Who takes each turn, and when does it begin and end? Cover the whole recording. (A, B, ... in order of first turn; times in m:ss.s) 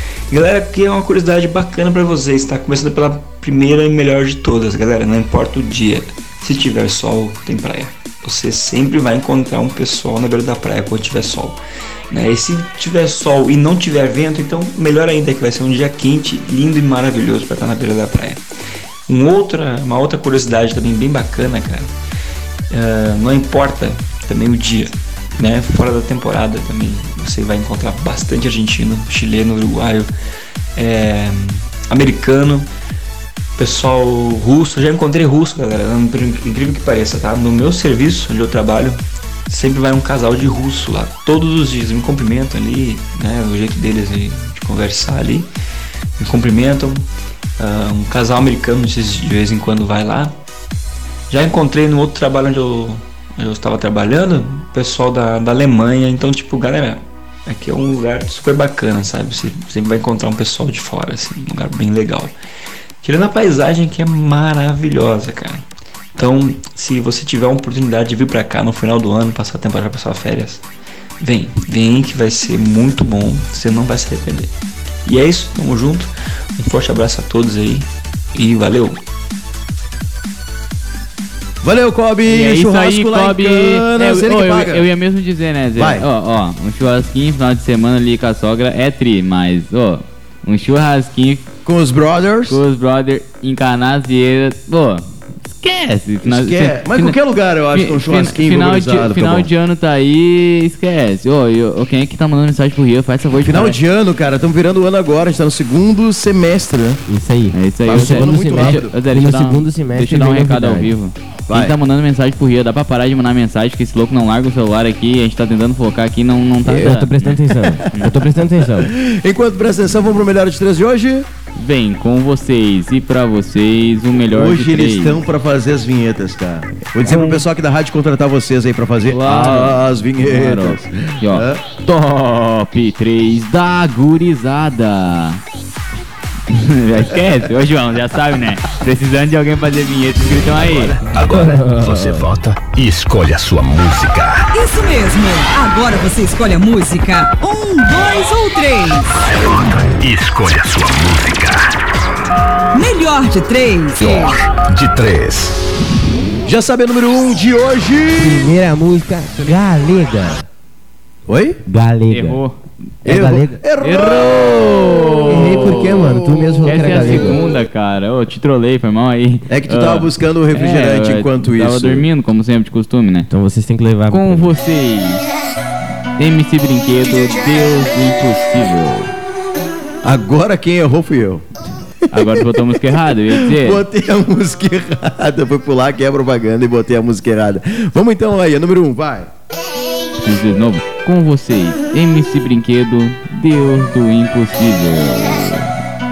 0:00.3-0:11.6 A
0:12.1-0:18.4 A
0:19.1-0:21.9 A
0:22.7-0:30.1 A
0:30.8-0:32.7 A
0:33.6-0:45.5 A
0:46.2-0:47.1 A
0:47.6-0:50.4 A
0:51.3-1:02.3 A
1:03.0-1:05.6 A
1:06.2-1:10.6 A
1:11.2-1:14.5 A
1:15.0-1:19.0 A
1:21.6-1:24.9 B
1:22.3-1:31.5 C
1:25.8-1:26.1 B
1:31.6-1:32.6 B
1:32.5-1:37.2 C
1:36.2-1:39.5 B
1:37.7-1:43.8 C
1:43.4-1:47.0 B
1:47.1-1:51.0 D
1:47.5-1:57.4 C
1:47.9-1:48.9 B
1:51.5-1:51.8 B
1:56.6-1:58.9 D
1:58.8-2:01.3 B
2:01.6-2:05.2 C
2:04.3-2:11.6 B
2:07.0-2:07.4 C
2:09.1-2:15.4 C
2:16.5-2:22.2 C
2:20.6-2:24.5 E
2:24.5-2:29.3 F
2:30.0-2:31.7 E
2:32.7-2:34.4 F
2:34.0-2:35.6 E
2:36.4-2:38.5 B
2:38.2-2:40.5 D
2:41.3-2:41.6 B
2:41.7-2:42.4 D
2:42.1-2:42.6 C
2:43.0-2:43.6 D
2:43.1-2:47.5 B
2:43.8-2:46.1 C
2:45.3-2:47.5 D
2:46.6-2:53.3 C
2:49.5-2:52.1 B
2:53.3-2:54.6 D
2:54.1-2:55.2 C
2:56.2-2:59.1 C
3:00.0-3:01.4 B
3:02.1-3:03.8 C
3:02.2-3:02.5 B
3:03.3-3:09.3 B
3:10.2-3:15.7 C